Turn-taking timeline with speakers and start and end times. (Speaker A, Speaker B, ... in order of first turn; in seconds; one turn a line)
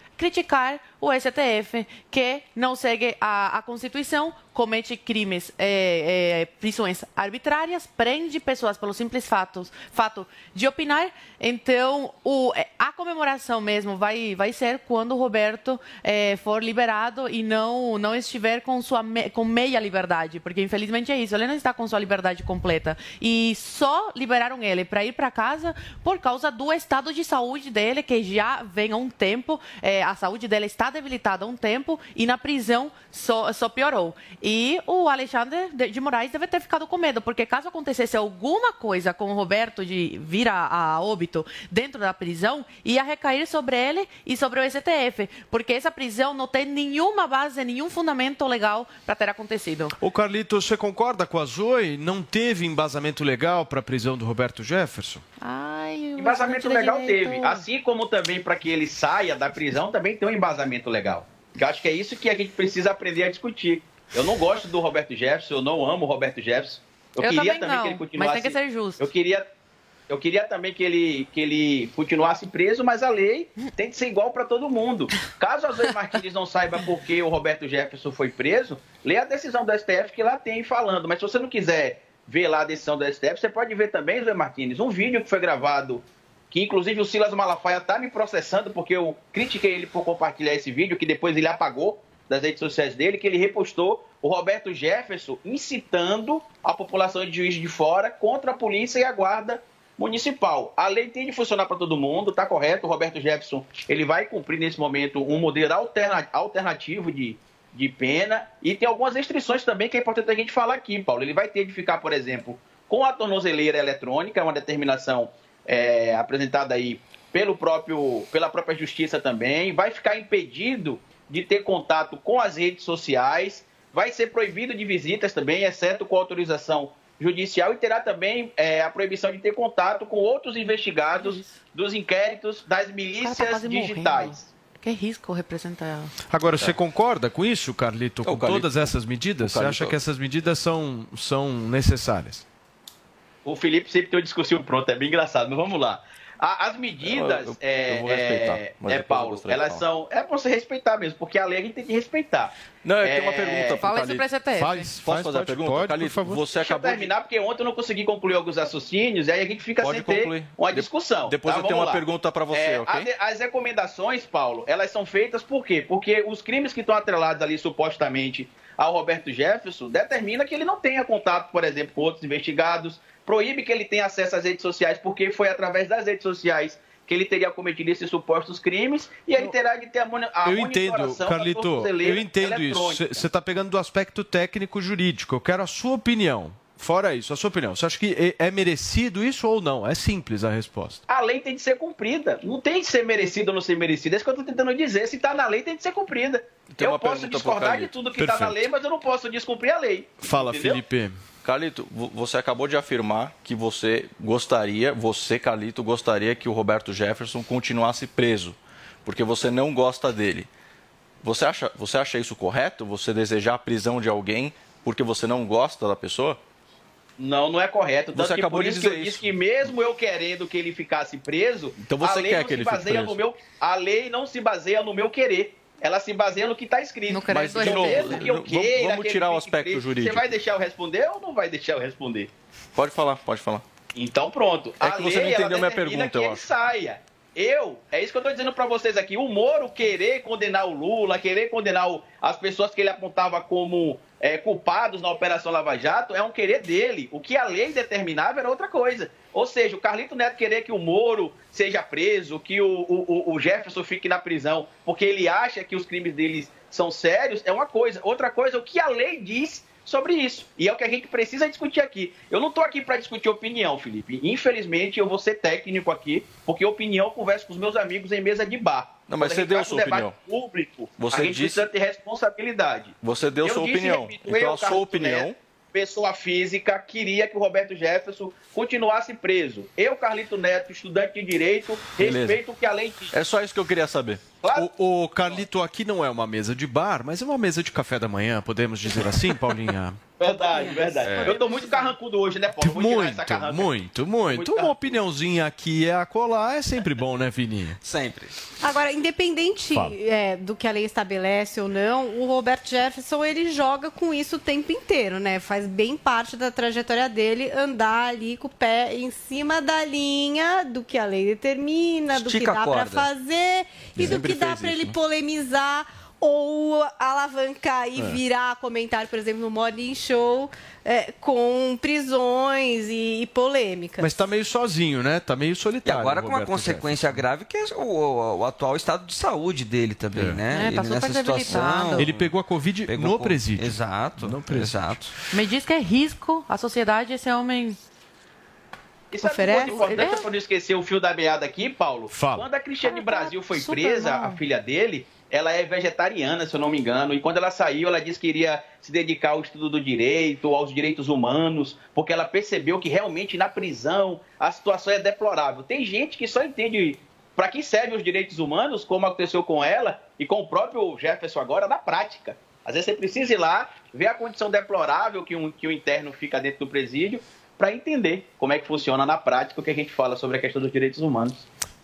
Speaker A: 0.2-49.9
Speaker B: 50.0-55.2
Speaker A: 55.4-57.6
Speaker C: 56.2-69.5
Speaker A: 67.2-69.0
Speaker C: 70.1-134.5
Speaker A: 131.1-131.6
Speaker A: 133.2-136.1
Speaker B: 136.3-142.4
Speaker D: 138.2-140.0
Speaker C: 143.4-153.8
Speaker D: 147.0-149.8
Speaker D: 152.8-154.3
Speaker A: 153.8-154.9
Speaker B: 154.6-156.4
Speaker D: 154.8-157.1
Speaker C: 156.5-183.2
Speaker D: 159.8-163.1
Speaker B: 180.4-191.0
Speaker C: 191.1-200.8
Speaker D: 196.8-198.6
Speaker B: 200.2-201.2
Speaker D: 201.4-210.5
Speaker D: 211.2-216.4
Speaker C: 217.2-232.3
Speaker D: 218.1-219.7
Speaker D: 221.8-223.2
Speaker A: 227.1-228.2
Speaker D: 227.3-230.4
Speaker D: 232.8-233.6
Speaker C: 233.9-283.1
Speaker D: 234.8-236.5
Speaker D: 269.1-270.1
Speaker D: 271.0-271.7
Speaker D: 273.0-275.4
Speaker D: 282.0-282.4
Speaker D: 283.1-284.3
Speaker C: 284.4-284.7
Speaker B: 284.5-290.0
Speaker C: 290.2-295.0
Speaker A: 291.2-291.9
Speaker B: 292.6-297.8
Speaker E: 297.8-298.3
Speaker F: 298.6-324.2
Speaker E: 312.1-313.1
Speaker B: 314.0-315.0
Speaker B: 324.0-327.2
Speaker E: 325.9-332.3
Speaker B: 330.2-330.4
Speaker A: 330.5-332.1
Speaker B: 332.0-334.8
Speaker E: 332.9-335.1
Speaker A: 335.3-337.8
Speaker C: 339.1-371.5
Speaker F: 339.2-339.7
Speaker A: 339.7-340.3
Speaker B: 342.1-342.5
Speaker A: 342.8-344.4